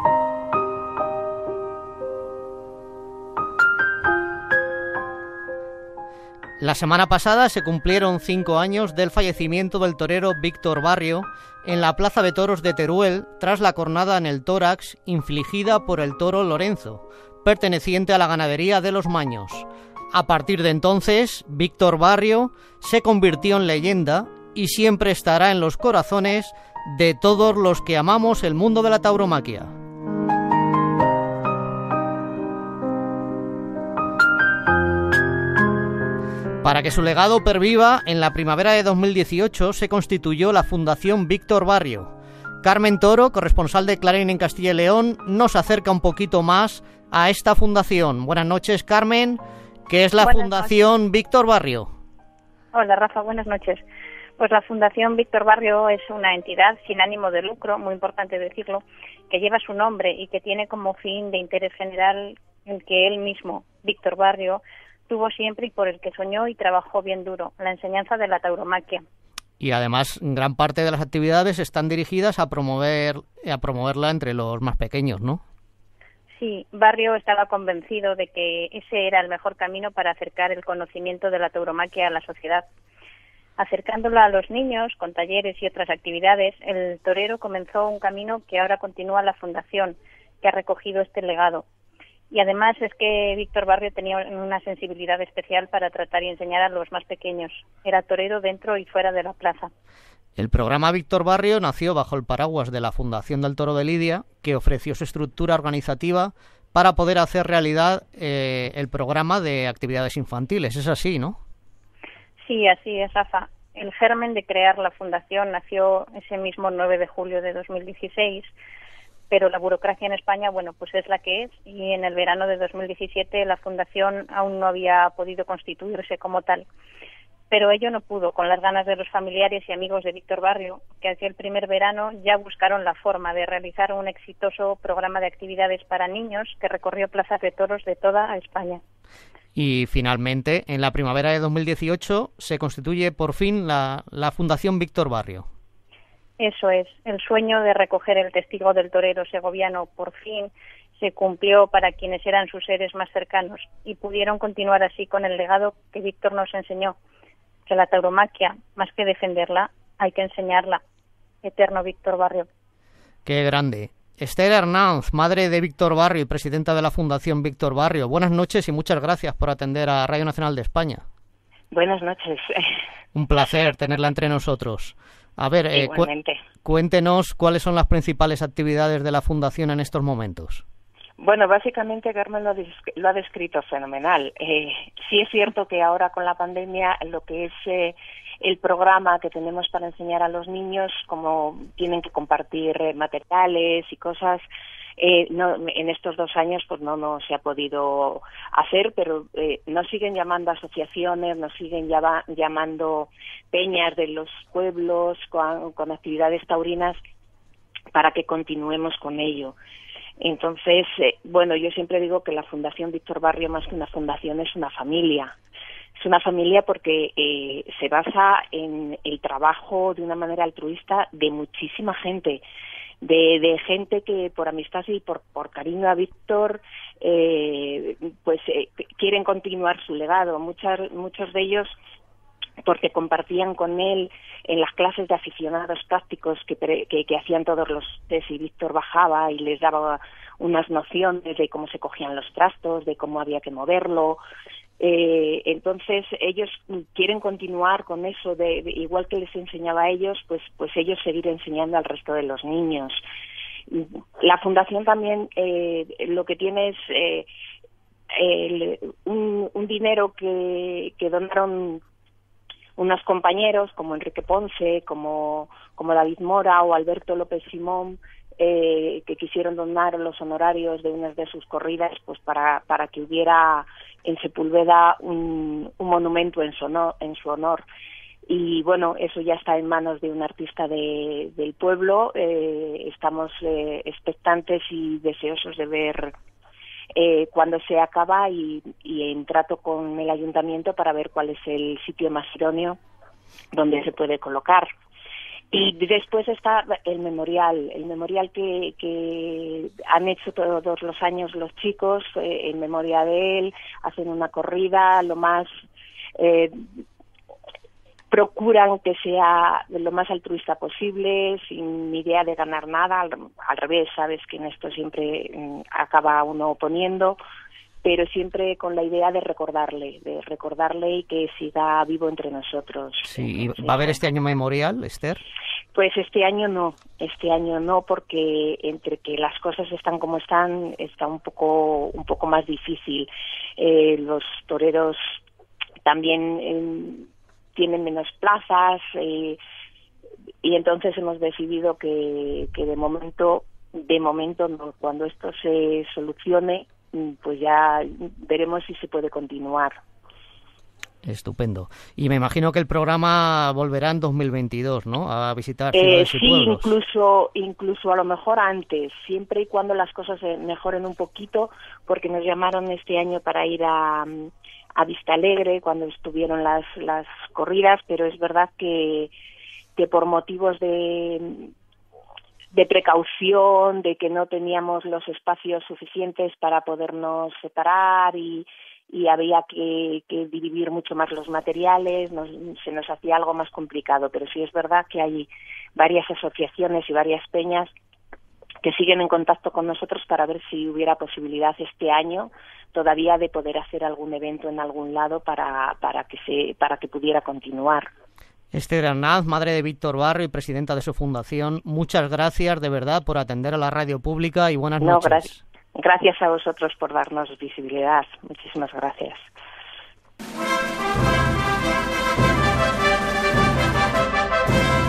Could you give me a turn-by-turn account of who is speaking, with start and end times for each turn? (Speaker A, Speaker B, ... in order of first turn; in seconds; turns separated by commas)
Speaker A: 6.6-29.7, Speaker A: 36.6-42.1, Speaker A: 42.6-51.9, Speaker B: 50.2-50.7, Speaker B: 52.7-53.8, Speaker B: 54.4-69.0, Speaker A: 69.6-75.4, Speaker B: 76.3-82.7, Speaker B: 83.6-91.6, Speaker B: 92.3-99.7, Speaker A: 100.4-111.4, Speaker B: 112.4-118.5, Speaker B: 119.3-126.7, Speaker B: 127.5-138.8, Speaker A: 139.6-145.5, Speaker B: 146.4-156.9, Speaker B: 157.7-160.8, Speaker B: 161.4-162.5, Speaker A: 163.2-171.0, Speaker C: 171.7-172.7, Speaker A: 173.1-176.1, Speaker C: 175.7-176.4, Speaker A: 176.6-180.6, Speaker C: 181.2-194.4, Speaker C: 195.0-207.0, Speaker C: 207.9-209.6, Speaker C: 210.2-215.3, Speaker C: 216.0-222.4, Speaker C: 223.0-231.8, Speaker C: 232.6-244.2, Speaker C: 244.8-253.0, Speaker C: 253.7-257.3, Speaker C: 258.1-261.8, Speaker C: 262.8-277.6, Speaker C: 278.2-286.1, Speaker C: 286.9-292.8, Speaker C: 293.5-294.7, Speaker C: 295.5-305.5, Speaker C: 306.1-306.8, Speaker C: 308.1-317.2, Speaker C: 317.8-324.0, Speaker A: 323.0-325.2, Speaker C: 325.7-335.2, Speaker C: 335.8-339.4, Speaker C: 340.4-349.8, Speaker A: 351.0-356.7, Speaker C: 355.7-369.1, Speaker C: 369.8-371.5, Speaker C: 372.5-387.7, Speaker C: 388.6-397.9, Speaker A: 398.5-405.4, Speaker C: 404.8-409.3